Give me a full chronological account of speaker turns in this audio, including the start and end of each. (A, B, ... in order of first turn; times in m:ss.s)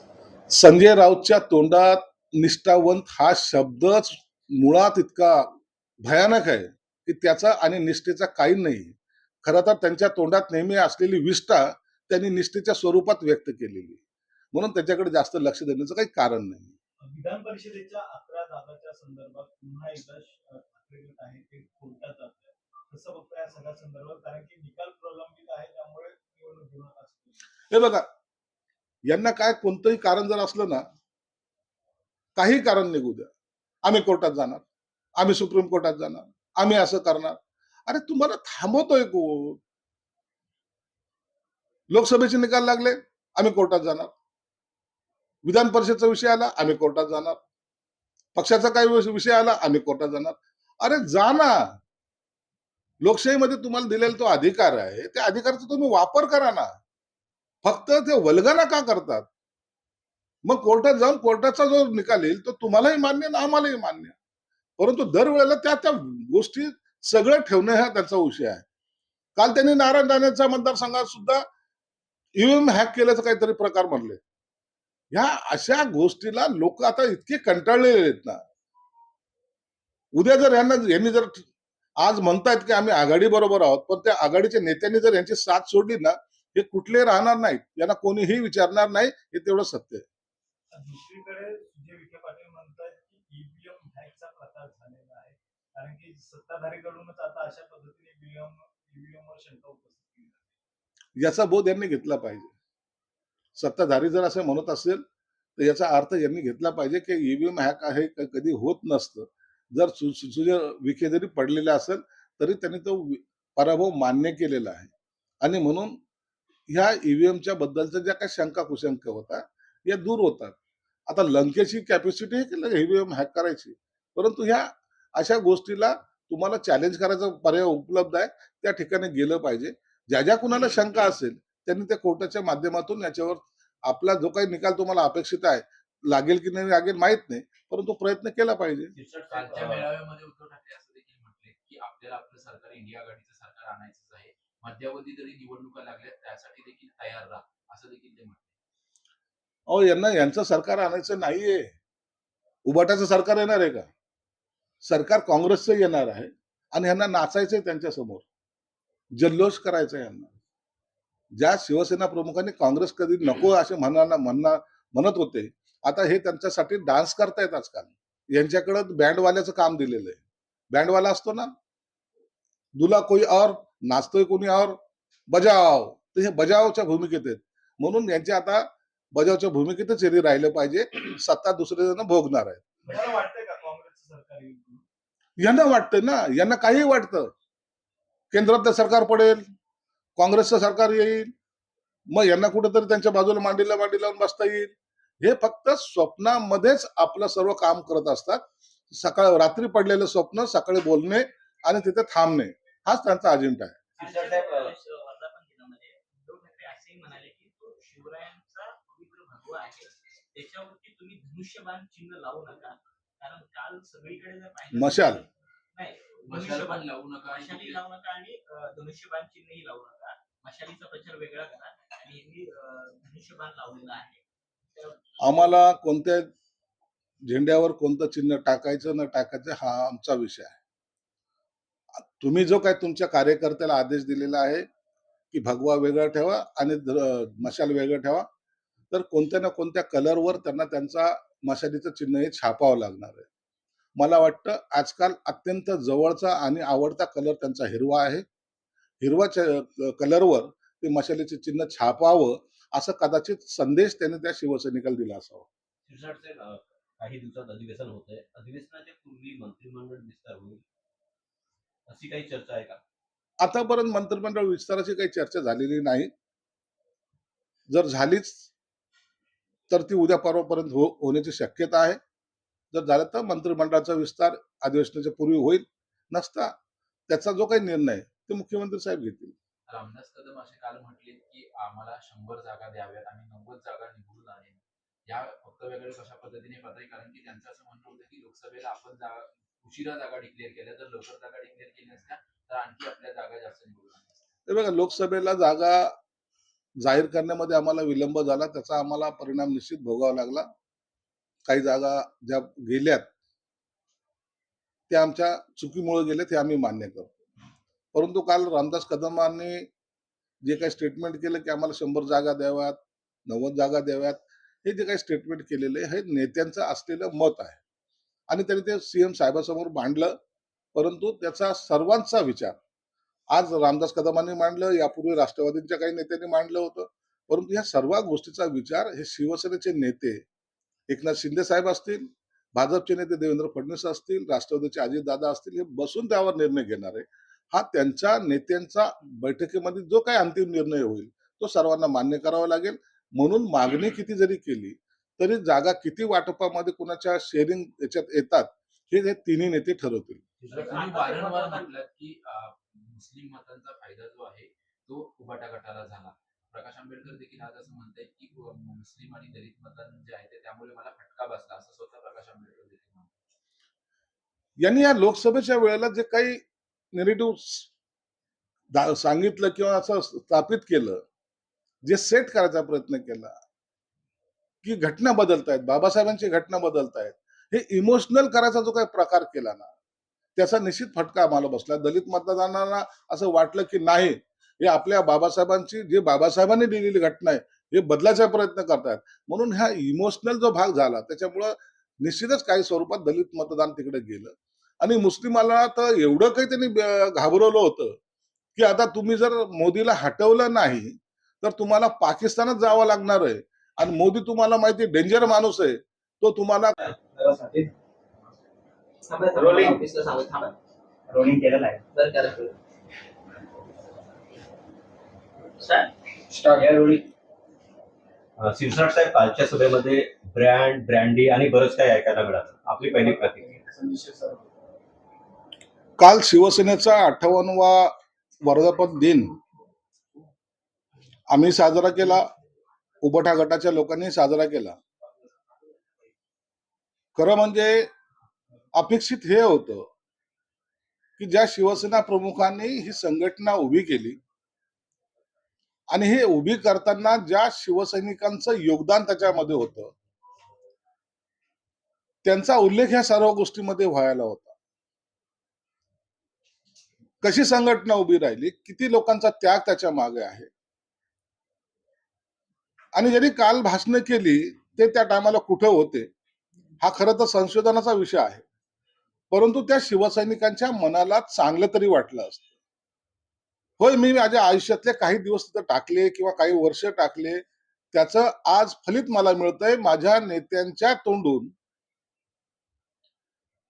0:00.5-0:05.5 A
0:06.0-0:14.0 A
0:14.5-0:16.7 A
0:17.0-0:27.4 B
0:27.7-0:28.0 A
0:29.1-0:30.8 A
0:32.4-0:33.3 A
0:33.8-0:34.6 A
0:35.2-0:39.6 A
0:41.9-0:44.1 A
0:45.5-0:47.4 A
0:48.4-0:51.6 A
0:53.0-0:56.7 A
0:57.6-0:59.3 A
1:00.5-1:04.2 A
1:04.8-1:08.6 A
1:09.4-1:11.4 A
1:12.4-1:14.2 A
1:15.1-1:18.4 A
1:20.2-1:21.4 A
1:22.0-1:30.0 A
1:30.7-1:40.4 B
1:41.2-1:42.5 A
1:43.6-1:45.0 A
1:45.6-1:54.9 A
1:55.4-1:56.0 A
1:56.7-2:00.6 A
2:01.1-2:18.9 A
2:18.9-2:19.9 C
2:19.3-2:28.5 D
2:29.7-2:31.7 A
2:32.7-2:33.9 A
2:34.8-2:38.3 A
2:39.2-2:40.3 A
2:41.4-2:50.2 A
2:50.7-2:51.5 A
2:52.8-2:54.8 A
2:55.3-3:02.6 A
3:02.9-3:04.8 B
3:05.4-3:07.3 A
3:08.3-3:09.4 A
3:10.2-3:11.3 A
3:12.1-3:14.7 A
3:15.2-3:23.8 A
3:24.0-3:24.8 C
3:24.0-3:35.2 E
3:34.7-3:35.2 A
3:35.8-3:44.2 E
3:36.3-3:37.8 D
3:44.7-3:45.5 E
3:45.2-3:46.3 A
3:47.2-3:50.6 A
3:52.2-3:54.7 A
3:55.3-3:58.3 A
3:58.9-4:03.3 A
4:04.0-4:08.3 A
4:09.0-4:15.5 A
4:15.9-4:20.6 C
4:21.9-4:22.8 C
4:23.4-4:26.1 A
4:27.7-4:28.5 A
4:29.7-4:32.0 A
4:32.7-4:36.5 A
4:37.1-4:39.4 A
4:39.7-4:54.2 D
4:54.5-4:55.9 A
4:56.8-5:00.5 A
5:01.5-5:03.1 A
5:04.9-5:07.2 A
5:07.9-5:09.7 A
5:10.4-5:17.6 A
5:18.3-5:20.2 A
5:20.8-5:22.6 A
5:23.3-5:30.2 A
5:30.9-5:50.3 A
5:50.4-5:50.8 C
5:50.5-6:03.1 D
5:50.5-5:51.7 E
6:04.6-6:06.4 A
6:06.9-6:07.7 A
6:08.7-6:11.0 A
6:11.8-6:13.4 A
6:14.6-6:19.7 A
6:20.4-6:38.0 A
6:38.6-6:46.8 A
6:49.1-6:50.5 E
6:52.0-6:52.5 E
6:56.6-6:56.9 C
6:58.4-7:03.6 C
7:06.0-7:09.3 A
7:11.3-7:12.2 A
7:13.0-7:14.8 A
7:17.2-7:17.9 A
7:18.8-7:19.9 A
7:21.2-7:24.2 A
7:25.9-7:29.9 A
7:32.2-7:34.6 A
7:37.2-7:40.5 A
7:42.9-7:46.1 A
7:46.8-7:48.4 A
7:49.3-7:52.5 A
7:53.8-8:01.5 A